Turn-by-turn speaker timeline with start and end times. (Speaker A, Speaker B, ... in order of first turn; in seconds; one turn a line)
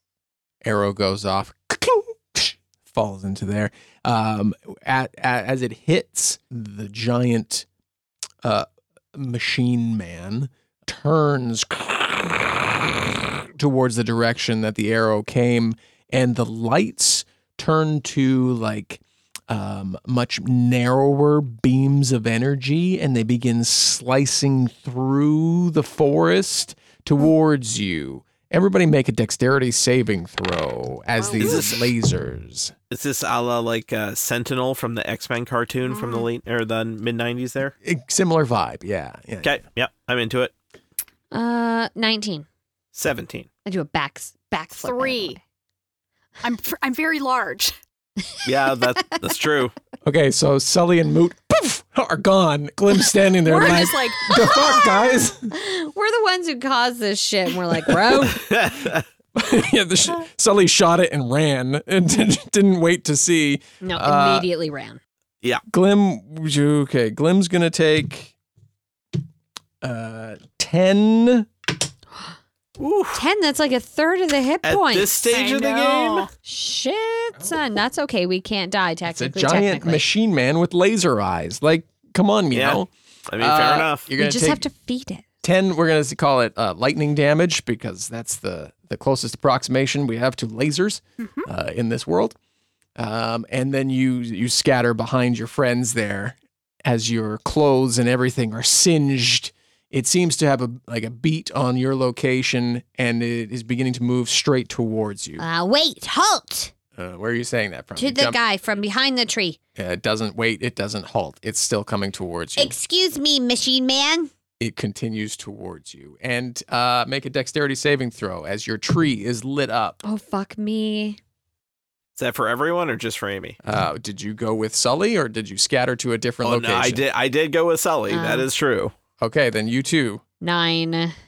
Speaker A: 0.6-7.7
Speaker A: 8.4-32.7
Speaker B: 31.2-31.5
Speaker C: 31.4-31.9
Speaker C: 32.9-37.7
Speaker B: 35.9-36.3
Speaker A: 37.8-39.6
Speaker C: 39.4-40.5
Speaker D: 41.3-42.5
Speaker C: 42.9-43.5
Speaker D: 43.6-45.4
Speaker B: 44.8-45.4
Speaker B: 46.4-47.7
Speaker C: 48.5-49.7
Speaker A: 50.0-55.5
Speaker B: 53.4-54.3
Speaker D: 54.3-58.5
Speaker C: 58.2-59.0
Speaker A: 59.3-64.5
Speaker D: 63.8-65.0
Speaker A: 65.7-68.3
Speaker A: 69.8-71.5
Speaker C: 72.8-73.2
Speaker D: 73.1-75.1
Speaker C: 74.6-76.3
Speaker B: 75.3-76.3
Speaker D: 76.4-80.0
Speaker A: 79.0-84.7
Speaker C: 82.5-84.1
Speaker D: 84.2-85.2
Speaker A: 85.4-92.3
Speaker B: 91.2-91.5
Speaker A: 93.0-105.4
Speaker D: 105.4-106.7
Speaker A: 107.0-108.4
Speaker D: 108.0-109.6
Speaker A: 109.8-112.8
Speaker D: 112.5-114.3
Speaker A: 114.6-120.0
Speaker D: 120.0-121.2
Speaker C: 122.2-123.6
Speaker A: 123.6-127.0
Speaker C: 126.4-128.9
Speaker D: 128.1-128.5
Speaker A: 129.2-130.2
Speaker D: 130.4-131.2